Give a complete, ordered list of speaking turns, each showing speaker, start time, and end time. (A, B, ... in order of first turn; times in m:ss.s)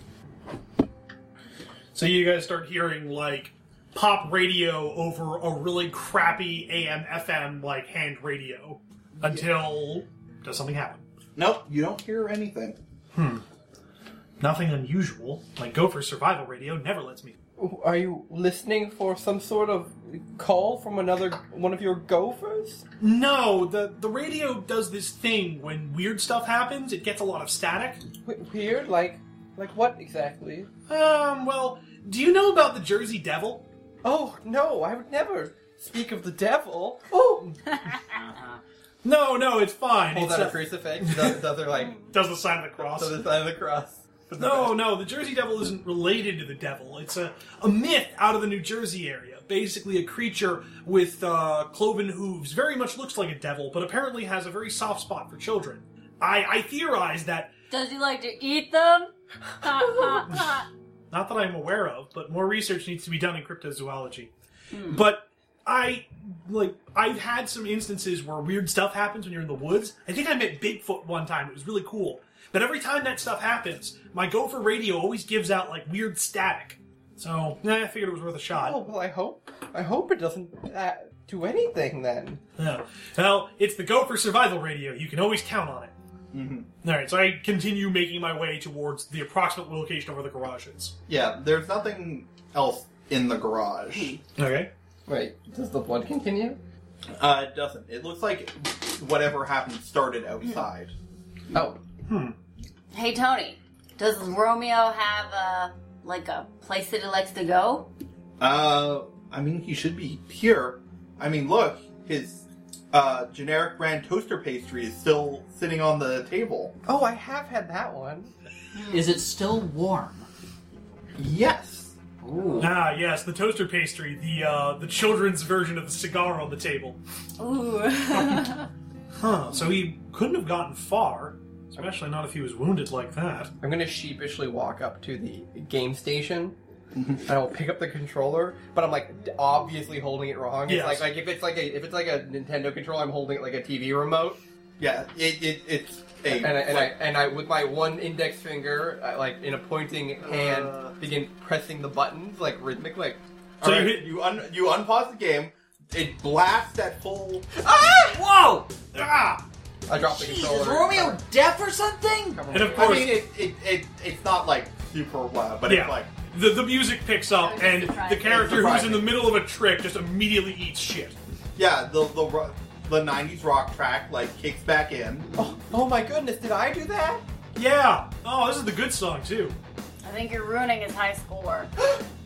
0:01.9-0:11.0 A
0:09.2-0:09.5 B
0:11.4-0:12.8 B
0:13.1-0:13.4 A
0:14.4-0:17.3 A
0:17.6-0:22.9 C
0:23.0-0:28.0 A
0:28.2-0:30.7 C
0:30.9-0:33.6 A
0:34.0-0:37.6 C
0:38.1-0:38.6 D
0:39.0-0:41.4 A
0:40.1-0:42.0 C
0:41.8-0:42.1 E
0:42.0-0:43.2 A
0:42.8-0:44.8 C
0:44.3-0:57.5 A
0:57.7-1:00.7 E
0:59.9-1:00.5 A
1:01.1-1:04.3 A
1:04.7-1:05.1 E
1:04.8-1:18.8 A
1:18.5-1:22.4 C
1:22.6-1:25.9 A
1:26.3-1:26.7 B
1:26.8-1:31.0 A
1:31.1-1:34.1 B
1:34.0-1:34.2 E
1:34.4-1:34.7 A
1:35.1-1:36.6 C
1:37.2-1:40.9 B
1:41.5-1:41.8 C
1:42.1-1:42.4 A
1:42.9-1:47.9 E
1:48.4-1:56.8 B
1:56.8-1:58.3 C
1:58.7-1:59.1 E
1:58.9-2:00.3 D
2:01.2-2:02.0 B
2:02.2-2:02.7 D
2:02.6-2:07.0 A
2:07.4-2:08.7 E
2:09.2-2:13.5 A
2:13.6-2:16.6 C
2:17.0-2:17.2 B
2:17.3-2:24.4 C
2:20.7-2:21.1 A
2:24.8-2:27.0 B
2:26.2-2:33.2 C
2:30.2-2:31.0 B
2:33.6-2:34.1 A
2:33.6-2:37.5 B
2:37.5-2:38.2 C
2:38.0-2:38.7 D
2:38.9-2:39.4 A
2:39.9-2:41.2 C
2:39.9-2:42.4 D
2:42.4-2:43.1 C
2:42.5-2:43.2 A
2:42.7-2:46.1 B
2:45.7-2:51.2 A
2:47.4-2:48.8 E
2:48.3-2:49.1 B
2:51.6-2:55.3 B
2:55.4-2:57.3 C
2:57.6-2:59.6 A
3:00.0-3:01.7 E